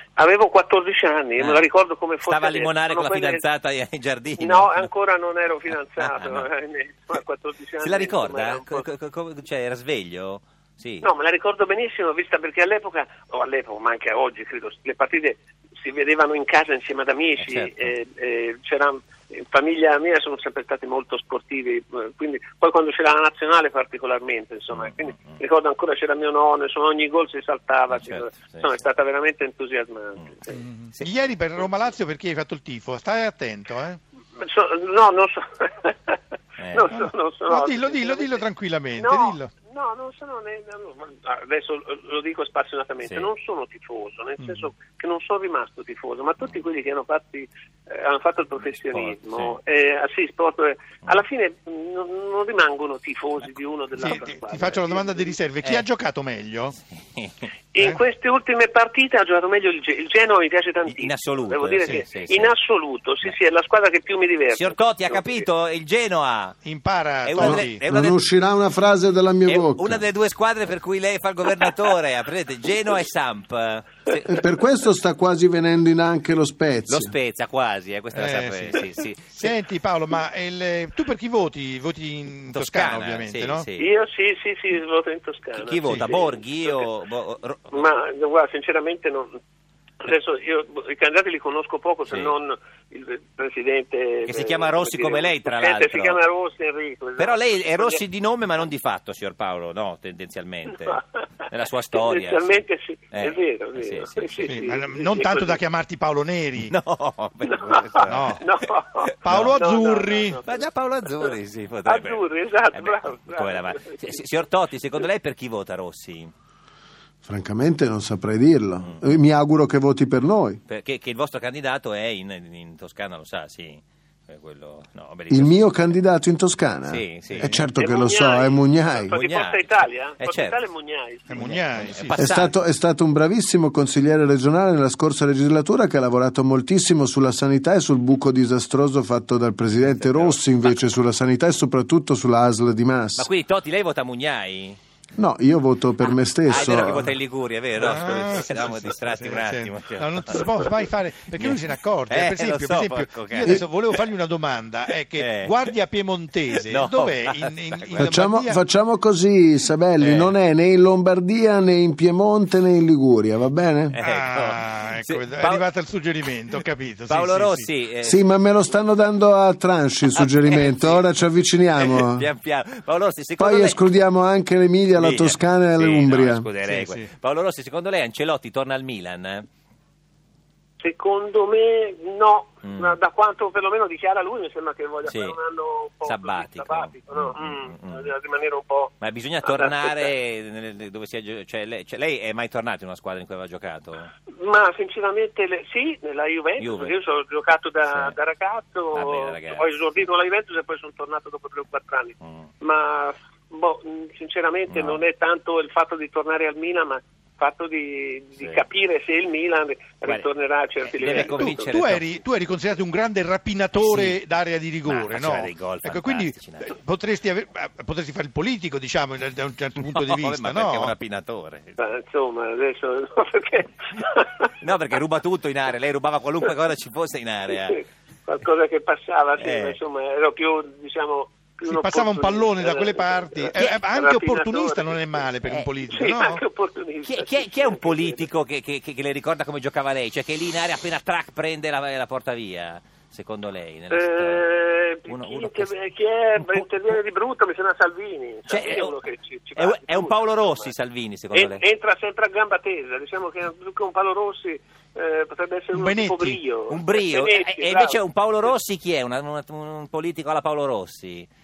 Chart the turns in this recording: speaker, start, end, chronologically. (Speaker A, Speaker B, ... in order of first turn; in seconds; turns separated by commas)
Speaker A: 0.2-3.4, Speaker B: 1.4-1.6, Speaker B: 2.2-4.9, Speaker A: 4.4-8.8, Speaker B: 6.0-6.5, Speaker B: 7.8-11.1, Speaker A: 11.0-30.6, Speaker B: 17.4-17.9, Speaker B: 24.7-25.4, Speaker B: 27.9-28.7, Speaker C: 30.5-34.0, Speaker A: 34.4-55.4, Speaker B: 36.6-36.9, Speaker C: 36.9-39.5, Speaker B: 48.9-49.5, Speaker C: 54.0-56.8, Speaker B: 57.1-57.4, Speaker A: 57.7-65.4, Speaker B: 60.9-62.5, Speaker B: 64.5-66.6, Speaker C: 66.6-67.8, Speaker B: 67.2-68.2, Speaker D: 67.4-70.0, Speaker B: 69.5-74.4, Speaker D: 74.2-77.1, Speaker B: 76.9-79.5, Speaker C: 78.1-83.7, Speaker B: 82.5-83.9, Speaker A: 83.8-86.8, Speaker B: 85.5-87.8, Speaker C: 85.8-86.1, Speaker A: 87.7-89.3, Speaker A: 90.0-98.0, Speaker B: 92.1-92.3, Speaker B: 94.2-96.2, Speaker B: 97.2-102.6, Speaker A: 101.9-105.6, Speaker B: 103.1-104.5, Speaker C: 104.4-106.7, Speaker B: 106.7-108.4, Speaker A: 107.5-110.7, Speaker C: 108.1-108.4, Speaker B: 109.0-109.5, Speaker C: 109.2-110.4, Speaker B: 110.4-116.3, Speaker A: 111.8-114.2, Speaker D: 117.2-120.6, Speaker B: 118.8-119.1, Speaker B: 120.7-125.8, Speaker D: 125.3-129.1, Speaker B: 126.9-127.6, Speaker C: 127.3-127.7, Speaker A: 127.8-131.5, Speaker B: 129.2-129.6, Speaker B: 130.2-130.6, Speaker C: 131.3-132.2, Speaker B: 131.4-132.5, Speaker D: 132.2-143.3, Speaker B: 139.9-140.7, Speaker B: 143.2-144.8, Speaker D: 145.2-147.1, Speaker B: 146.0-150.6, Speaker C: 147.7-158.6, Speaker B: 151.4-154.0, Speaker B: 155.1-155.6, Speaker B: 156.5-158.1, Speaker D: 158.0-163.9, Speaker B: 160.0-160.3, Speaker B: 163.9-165.6, Speaker C: 164.0-167.7, Speaker B: 167.1-168.2, Speaker D: 168.0-172.3, Speaker B: 170.1-171.0, Speaker B: 171.8-173.8, Speaker D: 173.4-176.4, Speaker B: 174.9-179.5, Speaker C: 176.6-177.1, Speaker A: 180.8-190.1, Speaker B: 182.6-182.9, Speaker B: 185.0-185.4, Speaker B: 186.0-188.1, Speaker B: 189.0-194.1, Speaker A: 194.3-211.8, Speaker B: 196.6-196.9, Speaker B: 197.9-198.2, Speaker B: 198.9-199.6, Speaker B: 204.7-205.0, Speaker B: 210.8-212.1, Speaker C: 211.1-220.9, Speaker B: 213.8-214.2, Speaker B: 214.8-216.7, Speaker B: 219.8-221.8, Speaker A: 221.8-224.5, Speaker B: 224.6-227.8, Speaker A: 227.5-235.3, Speaker B: 229.4-229.8, Speaker C: 231.6-236.4, Speaker B: 235.4-235.7, Speaker A: 235.8-238.3, Speaker B: 237.0-244.5, Speaker A: 243.9-250.7, Speaker B: 245.1-245.8, Speaker B: 246.4-246.7, Speaker B: 248.5-249.0, Speaker B: 249.6-251.6, Speaker A: 251.3-258.0, Speaker C: 255.7-256.4, Speaker B: 256.7-261.3